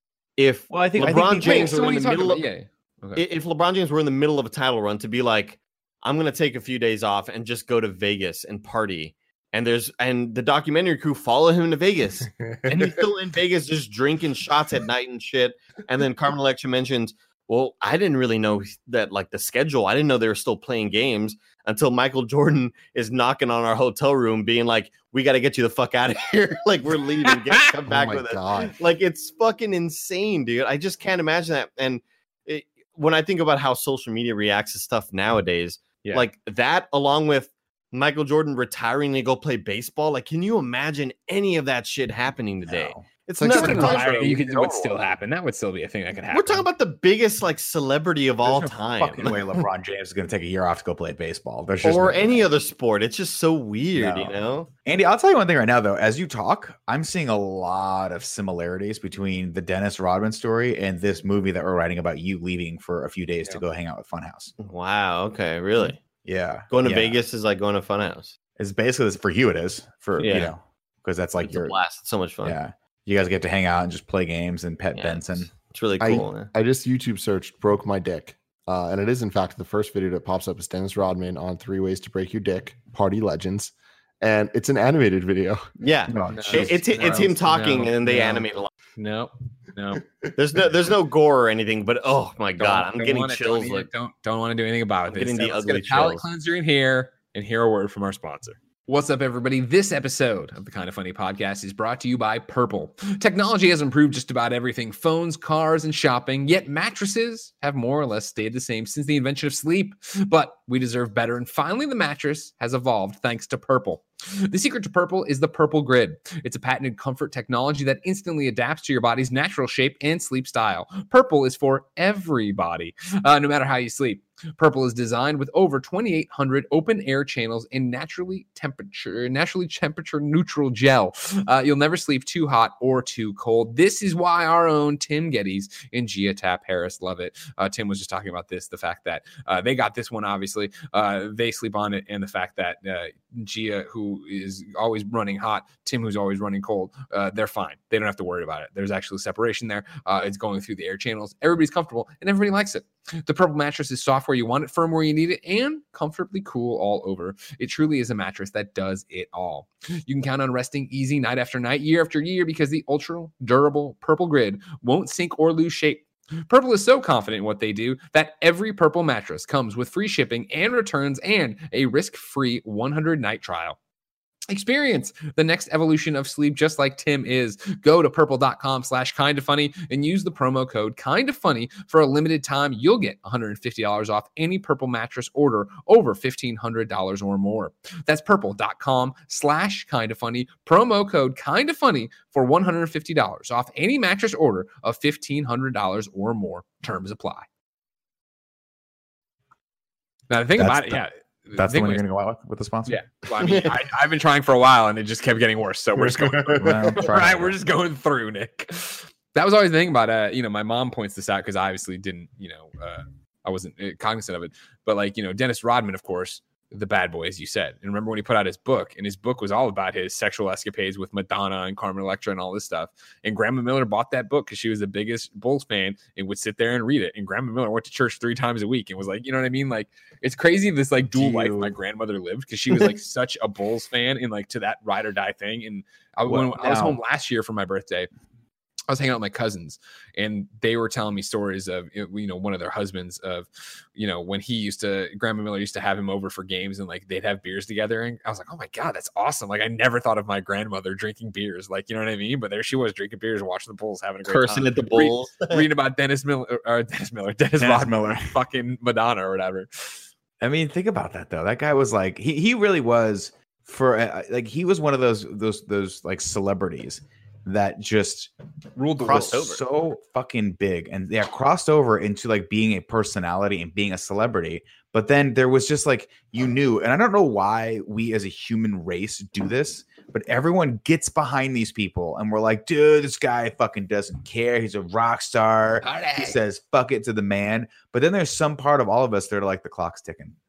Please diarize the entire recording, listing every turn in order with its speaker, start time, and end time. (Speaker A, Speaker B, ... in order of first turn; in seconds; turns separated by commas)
Speaker A: 0.4-2.4, Speaker B: 0.7-2.3, Speaker C: 0.8-3.2, Speaker A: 3.1-44.8, Speaker D: 12.4-12.9, Speaker D: 27.9-28.8, Speaker B: 42.7-43.1, Speaker D: 43.3-44.8, Speaker C: 43.5-46.6, Speaker A: 46.3-49.6, Speaker B: 48.5-52.5, Speaker A: 51.8-54.7, Speaker B: 54.0-64.5, Speaker A: 64.6-66.0, Speaker B: 66.2-67.2, Speaker A: 66.7-68.3, Speaker B: 68.5-71.7, Speaker A: 70.2-70.5, Speaker A: 71.4-72.6, Speaker B: 72.4-75.5, Speaker A: 75.0-76.5, Speaker D: 76.0-85.7, Speaker A: 85.8-88.7, Speaker B: 86.1-87.3, Speaker C: 86.3-90.0, Speaker A: 90.3-93.9, Speaker C: 92.6-173.8, Speaker A: 95.1-96.2, Speaker C: 174.5-197.4, Speaker C: 200.3-202.0, Speaker B: 200.6-201.0, Speaker B: 201.6-203.0, Speaker C: 202.9-238.1, Speaker A: 203.4-203.8, Speaker D: 205.9-207.0, Speaker B: 206.6-207.6, Speaker B: 231.1-231.7, Speaker B: 236.3-237.0, Speaker C: 238.9-259.9, Speaker A: 254.2-255.7, Speaker B: 257.6-258.3, Speaker B: 260.4-268.3, Speaker C: 268.8-269.5, Speaker B: 269.0-290.3, Speaker A: 269.1-269.6, Speaker C: 285.8-286.4